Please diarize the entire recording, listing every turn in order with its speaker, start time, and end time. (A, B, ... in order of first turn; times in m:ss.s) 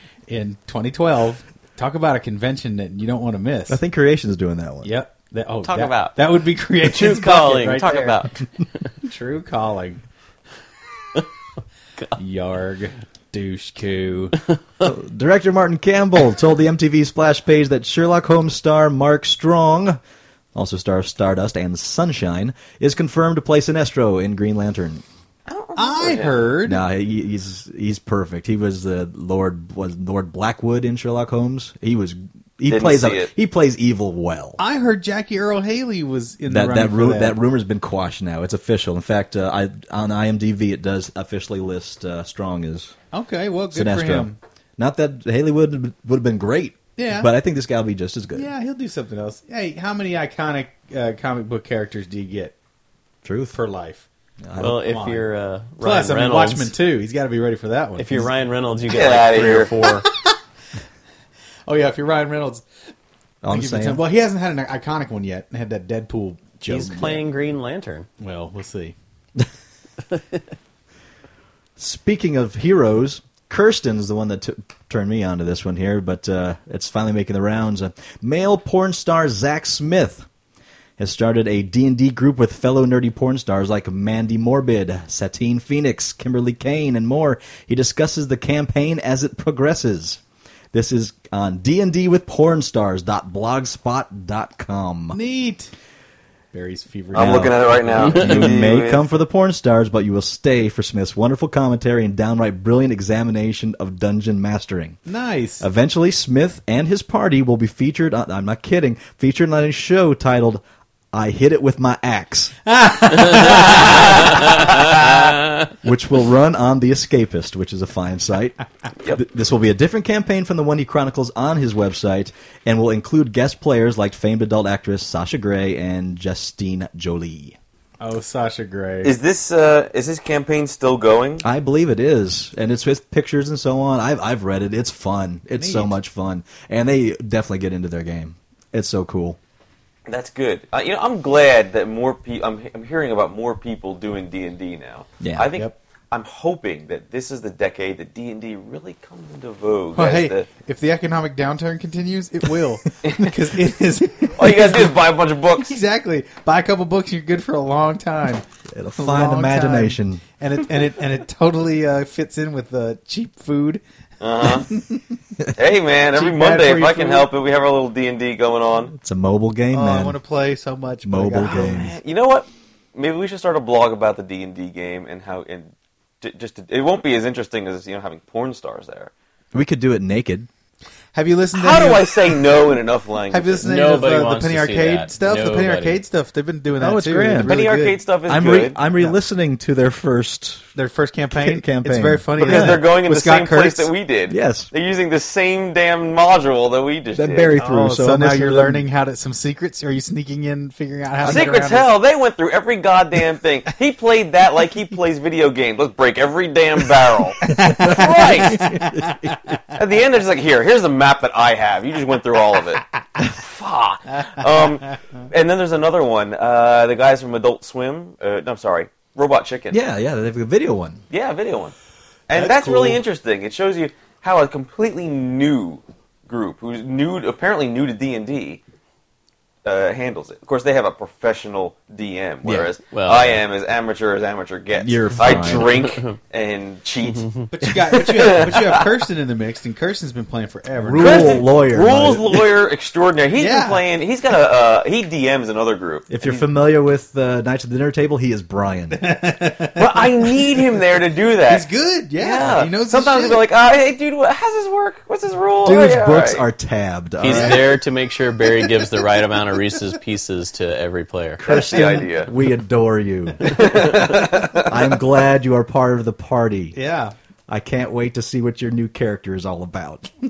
0:00.3-0:03.8 A
0:03.7-0:04.9 B
0:04.8-0:08.2 A
0:05.6-0:06.2 C
0:06.8-0:08.4 C
0:09.0-0:10.0 A
0:12.2-0:14.4 A
0:14.8-0:20.0 B
0:20.5-0:25.0 B
0:25.4-0:26.6 D
0:25.8-0:26.8 A
0:26.6-0:34.6 B
0:32.7-0:33.3 D
0:34.6-0:37.4 A
0:36.5-0:42.9 B
0:43.1-0:44.4 A
0:43.7-0:48.5 B
0:47.0-0:47.3 A
0:48.3-0:52.5 A
0:53.2-0:53.6 B
0:53.5-0:54.0 A
0:54.4-0:54.8 B
0:54.6-0:56.7 C
0:54.7-0:55.3 A
0:55.8-0:58.3 A
0:58.0-1:00.1 C
0:58.9-0:59.7 D
0:59.8-1:00.3 A
1:01.7-1:02.6 A
1:03.4-1:04.0 B
1:03.5-1:07.2 A
1:06.6-1:08.1 C
1:08.2-1:08.9 A
1:11.8-1:20.3 B
1:21.0-1:30.2 B
1:30.7-1:35.2 B
1:35.1-1:35.7 A
1:36.5-1:38.4 A
1:37.1-1:39.0 D
1:37.1-1:45.0 B
1:45.1-1:45.7 A
1:45.6-1:50.6 B
1:51.1-1:52.5 B
1:52.6-1:55.3 A
1:55.8-1:58.6 B
1:59.1-2:07.6 B
2:08.0-2:09.1 A
2:09.0-2:11.4 D
2:11.4-2:19.4 B
2:15.6-2:15.9 A
2:20.1-2:30.5 D
2:25.2-2:25.5 B
2:29.9-2:35.0 A
2:34.3-2:35.8 D
2:35.6-2:38.4 A
2:38.7-2:40.2 B
2:39.0-2:43.8 A
2:44.2-2:44.7 D
2:44.4-2:45.0 A
2:45.5-2:48.9 D
2:46.1-2:47.3 A
2:48.9-2:50.2 B
2:49.7-2:51.9 A
2:51.0-2:52.0 B
2:51.4-2:59.1 D
2:59.5-3:00.5 B
3:01.1-3:02.7 A
3:01.5-3:03.6 D
3:03.3-3:08.0 A
3:03.6-3:06.0 C
3:06.8-3:07.6 B
3:07.4-3:08.8 D
3:08.3-3:10.7 B
3:10.8-3:13.9 A
3:11.3-3:12.8 B
3:12.4-3:17.6 D
3:14.3-3:14.7 B
3:17.1-3:18.8 B
3:17.6-3:21.9 A
3:21.2-3:28.7 D
3:27.4-3:29.6 A
3:27.6-3:29.6 B
3:29.7-3:39.8 D
3:39.7-3:41.0 B
3:41.1-3:41.7 D
3:42.3-3:48.6 D
3:42.3-3:43.0 A
3:49.6-3:58.8 D
3:52.4-3:52.7 B
3:52.9-3:53.4 C
3:54.8-3:55.8 B
3:55.8-3:56.1 C
3:57.5-4:01.4 A
4:00.8-4:02.5 B
4:01.0-4:06.4 D
4:03.4-4:03.8 A
4:06.1-4:09.0 B
4:08.9-4:10.5 A
4:09.7-4:16.4 D
4:11.5-4:13.4 A
4:15.6-4:17.7 B
4:17.2-4:21.4 C
4:17.3-4:17.6 A
4:21.4-4:26.8 B
4:21.4-4:22.3 D
4:23.4-4:24.8 D
4:23.6-4:24.0 A
4:26.7-4:27.1 A
4:27.5-4:30.1 B